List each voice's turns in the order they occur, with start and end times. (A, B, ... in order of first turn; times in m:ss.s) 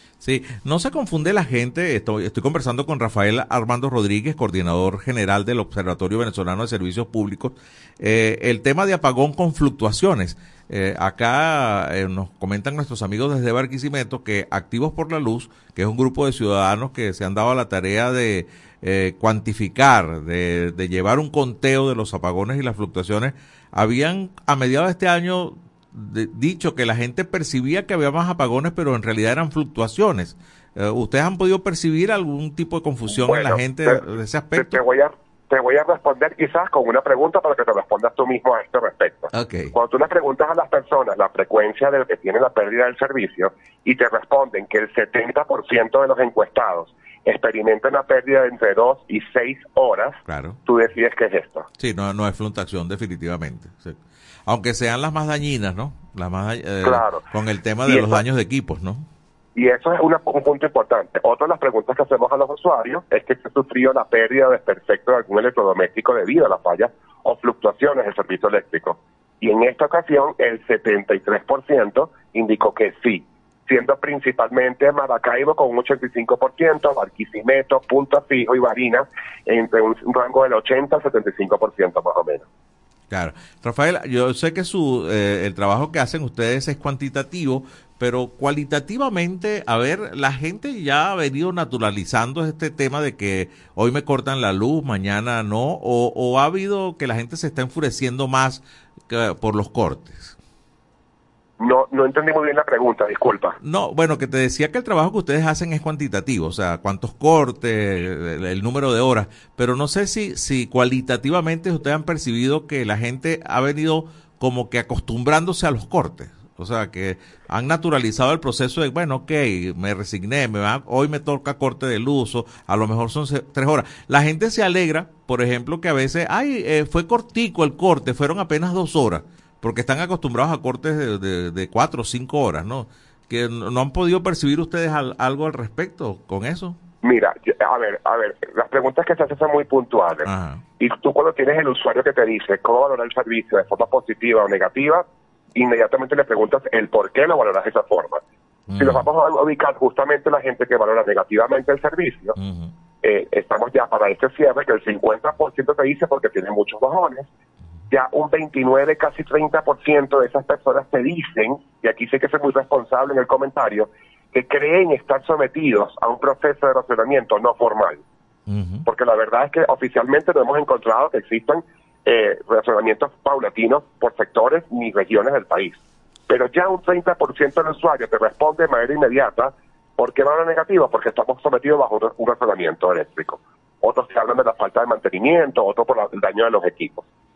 0:00.2-0:34.8 A
0:33.1-0:34.0 B
0:34.5-0:51.7 B
0:39.3-0:39.7 A
0:50.2-0:50.6 A
0:51.8-0:59.0 A
0:56.8-0:57.2 B
0:57.9-0:58.2 B
0:59.6-1:22.4 B
1:23.1-1:40.4 A
1:41.6-1:43.6 B
1:43.6-2:16.8 A
2:17.0-2:20.3 B
2:20.2-2:20.6 A
2:20.8-2:25.0 B
2:25.6-2:28.2 B
2:28.7-2:29.0 A
2:28.8-2:32.3 B
2:32.4-2:32.7 A
2:33.0-2:37.3 B
2:37.9-2:48.0 B
2:48.5-2:48.8 A
2:48.8-2:55.8 B
2:56.3-3:07.0 B